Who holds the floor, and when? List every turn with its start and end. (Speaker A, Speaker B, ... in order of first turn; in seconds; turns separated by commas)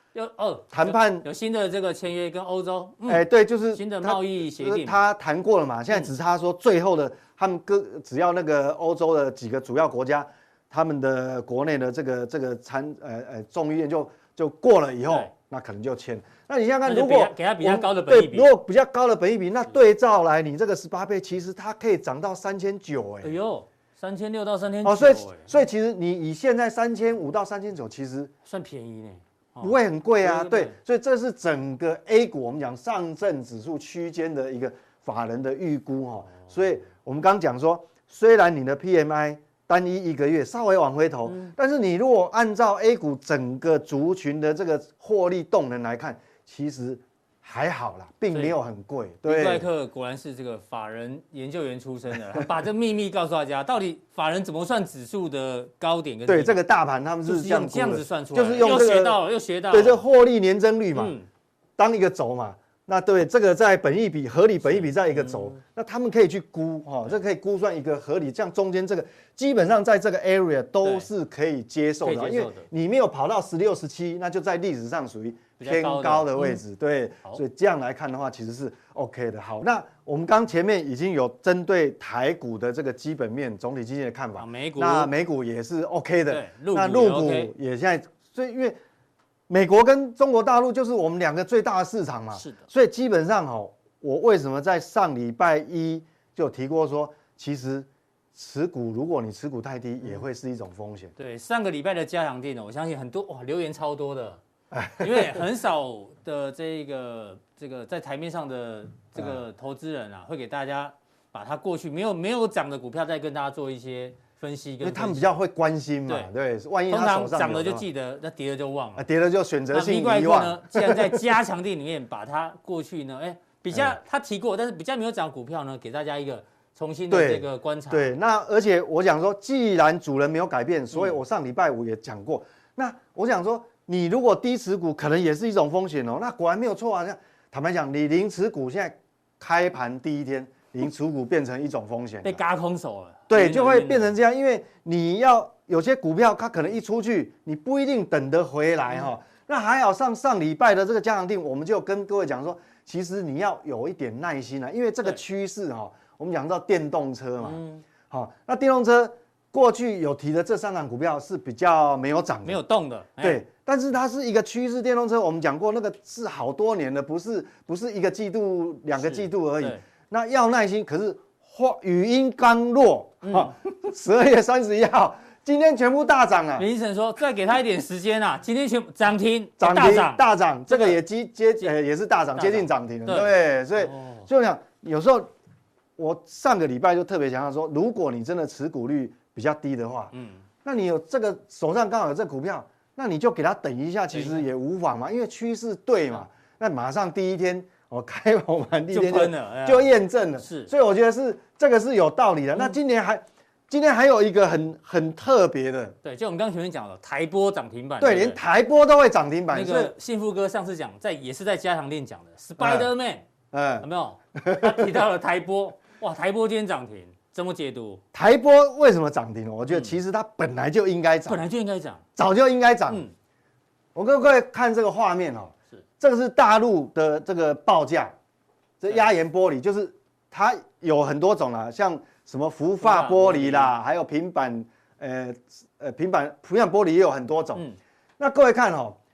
Speaker A: 0.1-5.0, Speaker B: 0.7-1.2, Speaker B: 3.0-23.3, Speaker A: 16.8-18.5, Speaker A: 23.2-25.5, Speaker B: 24.8-28.3, Speaker A: 28.4-30.8, Speaker B: 29.6-49.7, Speaker A: 41.2-41.5, Speaker A: 48.3-48.5, Speaker A: 49.2-56.6, Speaker B: 56.2-61.1, Speaker A: 57.2-60.0, Speaker A: 60.9-61.3, Speaker B: 61.8-88.8, Speaker A: 64.7-65.6, Speaker A: 72.0-72.7, Speaker A: 75.6-76.6, Speaker A: 84.4-85.1, Speaker A: 86.3-87.5, Speaker B: 89.5-101.1, Speaker A: 92.3-92.6, Speaker A: 101.2-104.4, Speaker B: 104.7-105.4, Speaker A: 105.0-115.3, Speaker B: 114.8-117.8, Speaker A: 116.9-119.0, Speaker B: 119.0-121.2, Speaker A: 119.7-128.1, Speaker B: 127.1-142.4, Speaker A: 142.2-144.1, Speaker B: 143.3-162.6, Speaker A: 157.4-157.8, Speaker A: 162.4-163.4, Speaker B: 163.2-176.7, Speaker A: 169.0-169.8, Speaker A: 173.2-173.5, Speaker A: 176.6-181.0, Speaker B: 179.6-185.3, Speaker A: 182.3-184.2, Speaker B: 186.0-190.1, Speaker A: 190.1-190.4, Speaker B: 190.6-205.9, Speaker A: 194.1-194.4, Speaker A: 198.9-200.7, Speaker A: 206.0-208.4, Speaker B: 208.0-209.9, Speaker A: 209.5-213.2, Speaker B: 212.6-212.9, Speaker B: 213.5-215.0, Speaker A: 213.8-218.0, Speaker B: 218.1-221.4, Speaker A: 221.3-222.0, Speaker B: 222.2-223.0, Speaker B: 223.9-228.1, Speaker B: 228.8-237.6, Speaker A: 232.8-233.7, Speaker B: 238.2-239.0